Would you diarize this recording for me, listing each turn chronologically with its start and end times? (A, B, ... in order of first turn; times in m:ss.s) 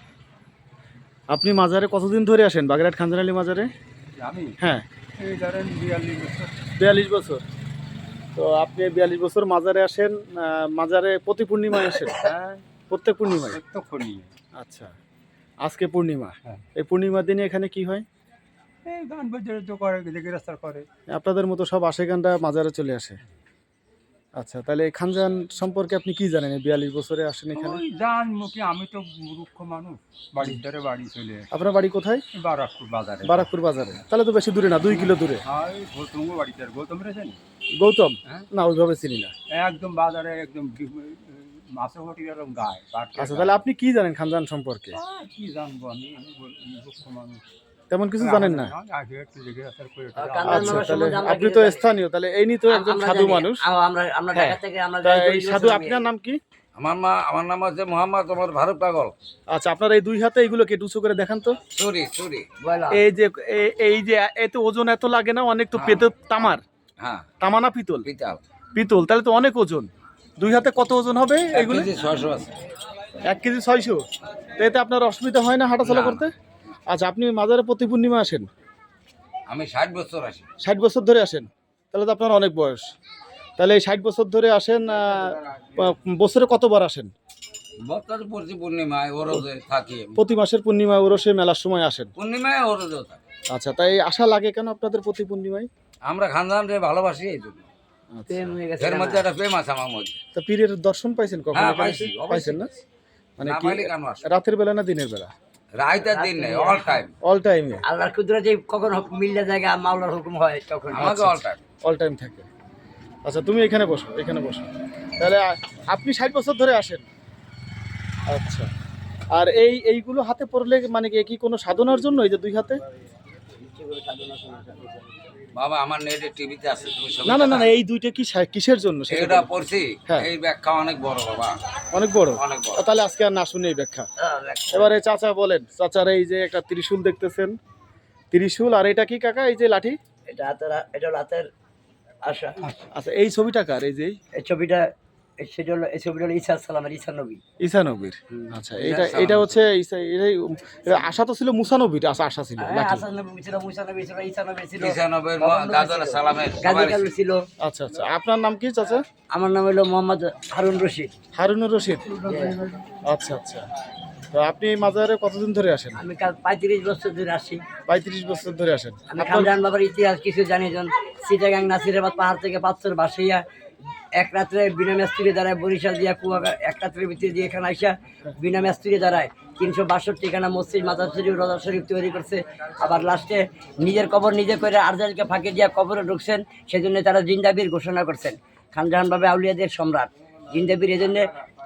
0:01.3-0:03.7 A
0:04.2-0:04.5 B
0:04.6-0:04.8 A
0:05.2-0:06.6 B
0:06.8-0:07.4 A
0:08.4-0:12.3 A
0:12.1-0:12.6 B
0:12.9-0:13.6 A
0:13.5-0:14.3 B
0:14.6-0:14.9 A
0:15.6-0:18.0 A
0:18.9-0:20.9 B
0:21.1-0:23.2 A
0:24.4-0:27.8 A
0:27.6-0:31.5 B
0:31.5-0:32.2 A
0:32.4-0:33.5 B
0:33.2-0:35.4 A
0:34.9-0:37.4 B
0:37.8-0:39.3 A
0:39.5-0:43.6 B
0:43.2-0:45.0 A
0:44.9-0:47.4 B
0:47.9-0:48.7 A
0:48.2-0:50.9 B
0:50.2-0:51.9 C
0:50.5-0:53.6 A
0:52.7-0:56.0 C
0:54.3-0:56.4 A
0:56.8-0:59.1 D
0:59.5-1:01.6 A
1:01.8-1:02.5 D
1:02.6-1:03.0 C
1:02.9-1:06.6 A
1:05.8-1:06.0 D
1:07.0-1:07.3 D
1:07.4-1:08.1 A
1:08.0-1:08.4 D
1:08.8-1:09.9 A
1:10.4-1:11.9 A
1:11.5-1:12.5 D
1:13.2-1:14.0 A
1:14.6-1:16.3 A
1:15.8-1:16.2 D
1:16.9-1:18.5 A
1:19.5-1:20.4 D
1:20.6-1:22.8 A
1:23.6-1:27.1 A
1:27.8-1:30.2 D
1:30.2-1:32.1 A
1:32.2-1:33.2 D
1:33.5-1:35.7 A
1:36.0-1:37.7 D
1:38.1-1:38.6 A
1:38.3-1:39.3 C
1:38.8-1:40.2 D
1:40.4-1:42.7 A
1:41.5-1:42.6 D
1:43.4-1:45.3 A
1:43.4-1:44.2 D
1:45.8-1:47.1 D
1:46.0-1:47.0 C
1:47.2-1:47.8 A
1:47.9-1:51.1 C
1:50.9-1:51.6 D
1:51.0-1:52.4 A
1:53.2-1:57.0 A
1:58.3-1:58.7 A
1:59.3-2:02.8 A
2:03.6-2:05.1 C
2:05.5-2:07.7 D
2:07.2-2:09.5 A
2:09.1-2:11.6 D
2:11.9-2:14.0 A
2:12.4-2:12.8 D
2:14.2-2:15.0 C
2:14.7-2:17.5 A
2:18.3-2:20.0 A
2:20.3-2:21.5 C
2:22.2-2:22.7 C
2:22.9-2:24.2 A
2:24.4-2:24.8 C
2:25.4-2:27.4 C
2:27.6-2:33.1 A
2:28.8-2:29.6 D
2:32.6-2:37.4 C
2:34.8-2:37.1 D
2:37.6-2:39.0 A
2:39.3-2:41.1 C
2:41.3-2:42.2 A
2:42.2-2:42.6 C
2:43.1-2:43.6 A
2:44.3-2:46.0 A
2:46.0-2:47.6 C
2:47.9-2:49.5 A
2:49.1-2:53.4 C
2:54.2-3:11.3 C